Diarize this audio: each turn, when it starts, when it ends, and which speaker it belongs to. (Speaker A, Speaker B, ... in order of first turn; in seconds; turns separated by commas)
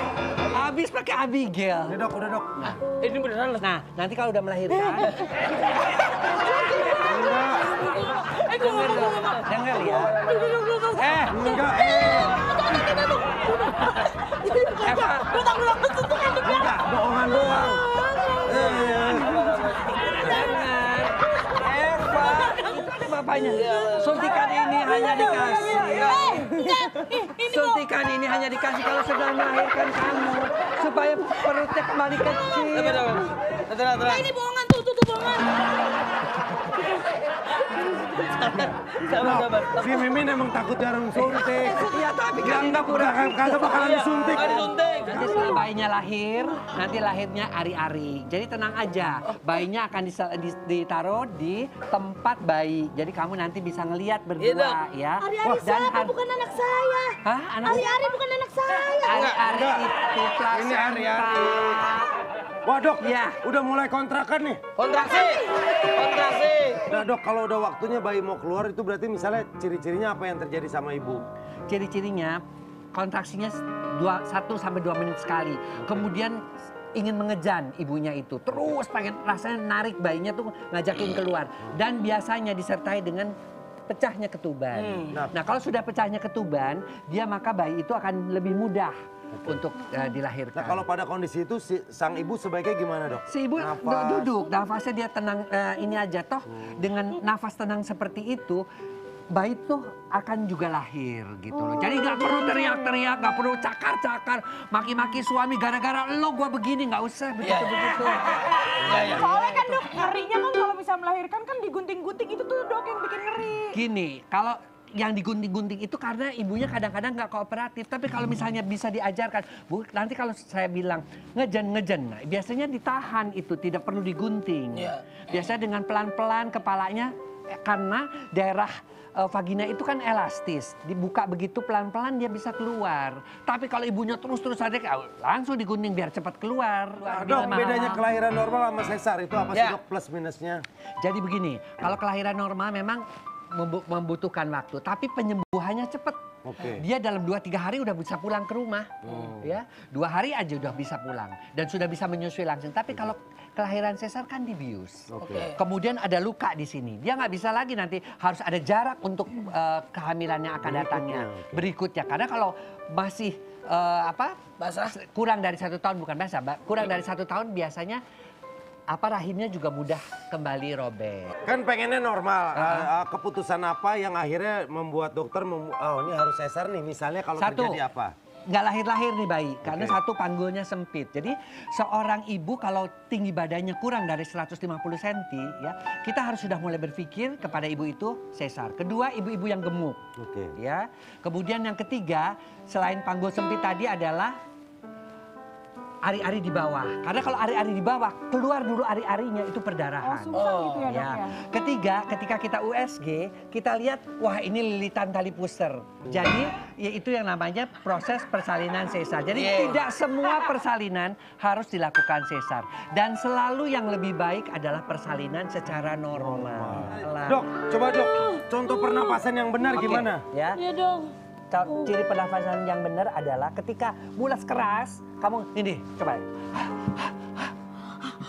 Speaker A: 0.5-2.0, Speaker B: 1.9-2.8, Speaker C: 3.0-3.6, Speaker A: 3.6-5.2, Speaker D: 6.3-16.8, Speaker B: 7.0-7.7, Speaker A: 8.5-10.2, Speaker C: 9.8-10.2, Speaker A: 11.0-11.5, Speaker B: 11.3-12.4, Speaker A: 14.8-15.3, Speaker B: 16.4-17.8, Speaker D: 17.5-18.5, Speaker B: 18.4-19.5, Speaker C: 18.6-19.9, Speaker A: 20.0-26.1, Speaker C: 23.4-24.5, Speaker D: 24.6-27.8, Speaker E: 24.8-27.2, Speaker C: 25.9-26.5, Speaker A: 27.5-33.1, Speaker C: 32.7-34.3, Speaker D: 34.0-35.9, Speaker D: 37.7-38.3, Speaker C: 38.3-40.1, Speaker B: 39.1-44.6, Speaker A: 41.6-56.1, Speaker C: 43.7-45.4, Speaker C: 54.4-54.8, Speaker D: 55.2-59.2, Speaker A: 57.2-57.9, Speaker A: 59.0-62.1, Speaker C: 59.1-59.4, Speaker B: 59.4-59.9, Speaker B: 60.5-61.7, Speaker B: 62.6-64.6, Speaker A: 63.0-63.4, Speaker C: 64.8-66.8, Speaker D: 64.9-65.5, Speaker B: 66.9-71.3, Speaker A: 71.7-72.4, Speaker A: 72.9-76.4, Speaker A: 77.0-83.3, Speaker A: 83.9-90.8, Speaker C: 84.7-85.1, Speaker B: 89.3-89.6, Speaker B: 90.5-94.3, Speaker A: 93.3-98.6, Speaker A: 99.3-109.8, Speaker C: 107.4-109.3, Speaker E: 109.1-113.8, Speaker A: 113.7-138.1, Speaker C: 124.7-125.2, Speaker B: 137.0-140.6, Speaker C: 139.5-139.8, Speaker A: 141.0-164.4, Speaker B: 146.4-146.8, Speaker B: 149.0-149.3, Speaker B: 155.1-155.5, Speaker C: 155.2-155.6, Speaker B: 160.6-161.7, Speaker C: 164.6-164.9, Speaker A: 164.9-168.0, Speaker A: 168.9-171.3, Speaker B: 171.4-178.1, Speaker A: 172.6-172.9, Speaker A: 177.4-177.8, Speaker A: 178.5-190.0, Speaker B: 179.6-180.0, Speaker B: 190.2-190.6, Speaker A: 190.6-194.4, Speaker A: 196.0-217.5, Speaker E: 200.0-201.3, Speaker C: 200.3-200.9, Speaker C: 209.3-209.8, Speaker B: 216.2-220.2, Speaker A: 219.7-220.6, Speaker D: 220.6-221.1, Speaker A: 221.5-227.5